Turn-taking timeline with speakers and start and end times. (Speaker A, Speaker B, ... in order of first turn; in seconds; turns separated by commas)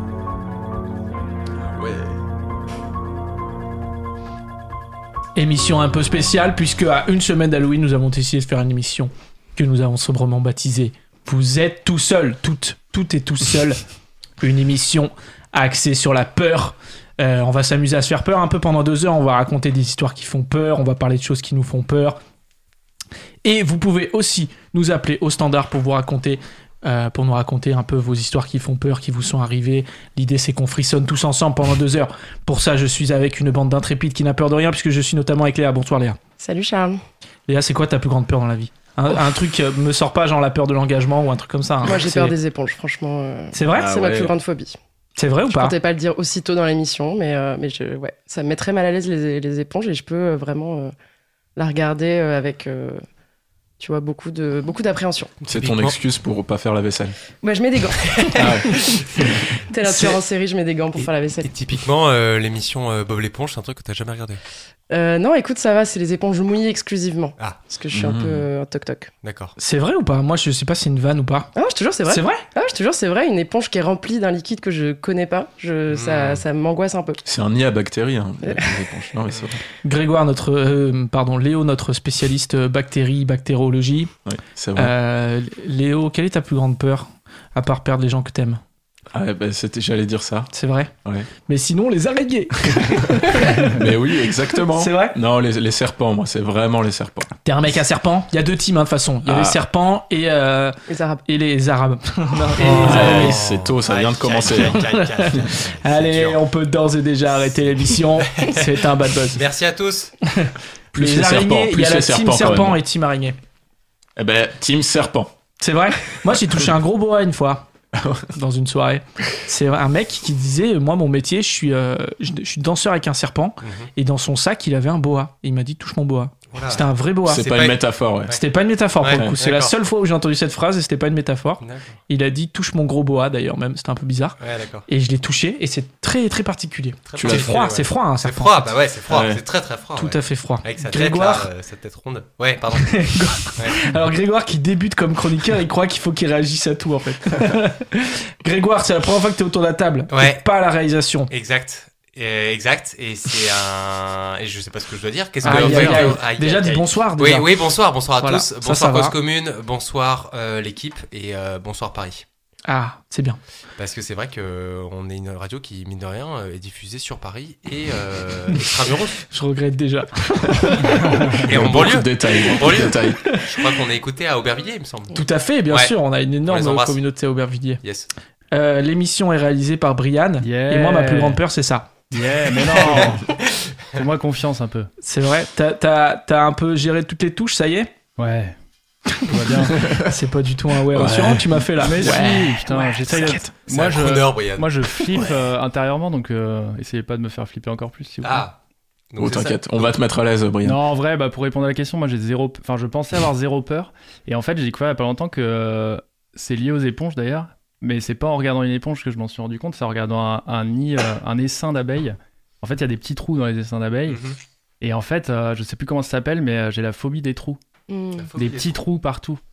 Speaker A: 1.8-2.1, Speaker B: 5.3-13.8, Speaker B: 14.4-22.2, Speaker B: 23.4-36.2, Speaker C: 36.4-37.0, Speaker B: 37.5-42.4, Speaker C: 41.8-44.8, Speaker B: 43.5-43.9, Speaker A: 43.7-44.3, Speaker B: 45.2-45.8, Speaker C: 45.5-50.9, Speaker C: 51.5-53.0, Speaker C: 53.8-55.4, Speaker D: 55.4-56.0, Speaker A: 55.5-57.1, Speaker C: 57.4-61.5, Speaker D: 58.0-59.0, Speaker A: 58.3-59.2, Speaker B: 59.8-60.2, Speaker D: 61.4-64.4, Speaker C: 64.9-69.1, Speaker A: 67.9-68.5, Speaker D: 69.2-69.5, Speaker B: 69.6-71.5, Speaker C: 71.5-77.2, Speaker B: 72.1-72.4, Speaker D: 75.9-76.4, Speaker A: 77.2-79.6, Speaker C: 78.4-78.8, Speaker B: 79.8-84.1, Speaker A: 84.2-84.9, Speaker B: 84.7-88.6, Speaker A: 89.1-90.5, Speaker B: 90.5-90.9, Speaker B: 91.5-93.8, Speaker A: 93.6-97.3, Speaker B: 94.7-95.2, Speaker B: 97.4-103.4, Speaker A: 99.2-99.6, Speaker C: 100.9-101.2, Speaker A: 102.6-104.8, Speaker D: 102.6-106.4, Speaker B: 104.5-109.4, Speaker D: 108.2-108.6, Speaker D: 109.3-110.1, Speaker B: 110.2-113.4, Speaker A: 110.9-112.8, Speaker A: 114.2-115.3, Speaker B: 115.6-117.7, Speaker A: 117.9-118.3, Speaker B: 118.3-127.5, Speaker D: 123.6-123.9, Speaker D: 126.5-128.4, Speaker A: 127.2-128.4, Speaker B: 128.3-138.6, Speaker D: 129.0-129.7, Speaker D: 131.6-132.0, Speaker D: 134.4-134.8, Speaker D: 137.1-143.0, Speaker A: 137.2-137.6, Speaker A: 139.1-139.4, Speaker B: 139.9-141.5, Speaker B: 142.8-151.3, Speaker D: 143.5-143.8, Speaker D: 150.1-150.4, Speaker D: 151.3-162.2, Speaker E: 155.4-156.1, Speaker B: 155.4-157.5, Speaker B: 158.2-159.1, Speaker B: 162.7-163.4, Speaker D: 163.8-169.2, Speaker B: 169.3-171.4, Speaker D: 171.4-175.9, Speaker A: 171.4-173.2, Speaker B: 173.2-173.7, Speaker B: 175.1-177.8, Speaker D: 176.5-177.0, Speaker D: 177.8-178.1, Speaker B: 178.5-181.9, Speaker E: 180.4-181.4, Speaker E: 182.1-183.3, Speaker D: 182.8-183.2, Speaker E: 183.9-184.9, Speaker B: 185.0-187.9, Speaker E: 188.2-188.6, Speaker B: 189.2-193.5, Speaker E: 189.2-189.8, Speaker A: 189.8-190.1, Speaker A: 190.9-192.4, Speaker E: 191.8-198.4, Speaker D: 193.7-195.2, Speaker D: 198.2-198.6, Speaker D: 199.1-199.9, Speaker A: 199.2-200.8, Speaker E: 200.6-214.2, Speaker D: 214.1-214.4, Speaker E: 214.8-217.6, Speaker C: 217.9-218.3, Speaker D: 218.2-218.8, Speaker E: 218.3-219.4